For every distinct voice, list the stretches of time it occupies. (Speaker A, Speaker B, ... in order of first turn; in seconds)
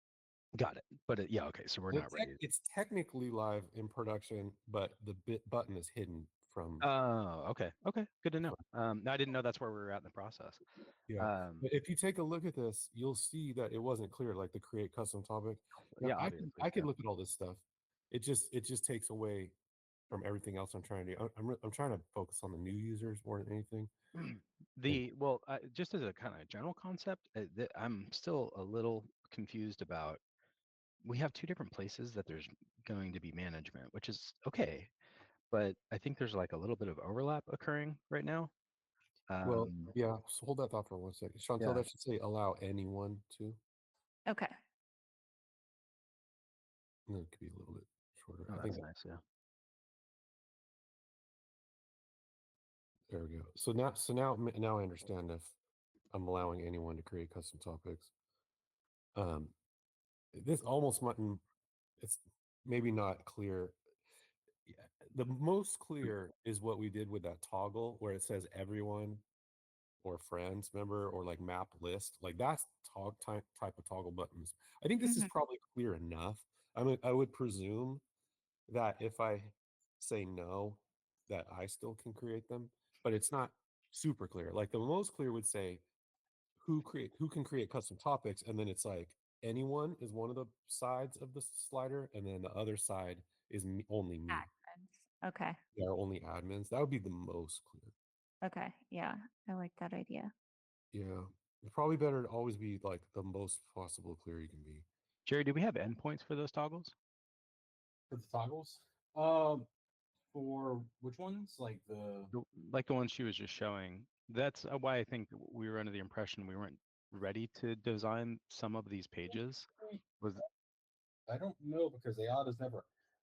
Speaker A: 0.5-2.4, 6.8-10.6, 11.2-11.7, 16.0-16.9, 24.2-30.2, 31.0-34.9, 35.5-38.5, 39.3-39.9, 41.6-41.8, 48.5-49.2, 105.2-106.9, 112.3-119.7, 120.2-120.4
Speaker B: 1.9-6.9, 11.1-19.5, 20.1-23.9, 39.4-43.6, 47.1-48.8, 53.1-55.5, 56.1-58.1, 59.2-59.5, 60.3-61.4, 62.0-63.8, 64.7-69.2, 70.0-78.0, 78.7-85.8, 86.6-94.5, 95.8-97.9, 100.9-104.9
Speaker C: 44.3-44.5, 75.0-75.3, 94.3-95.6, 98.4-100.3
Speaker D: 108.1-109.7, 110.3-112.3, 121.3-122.9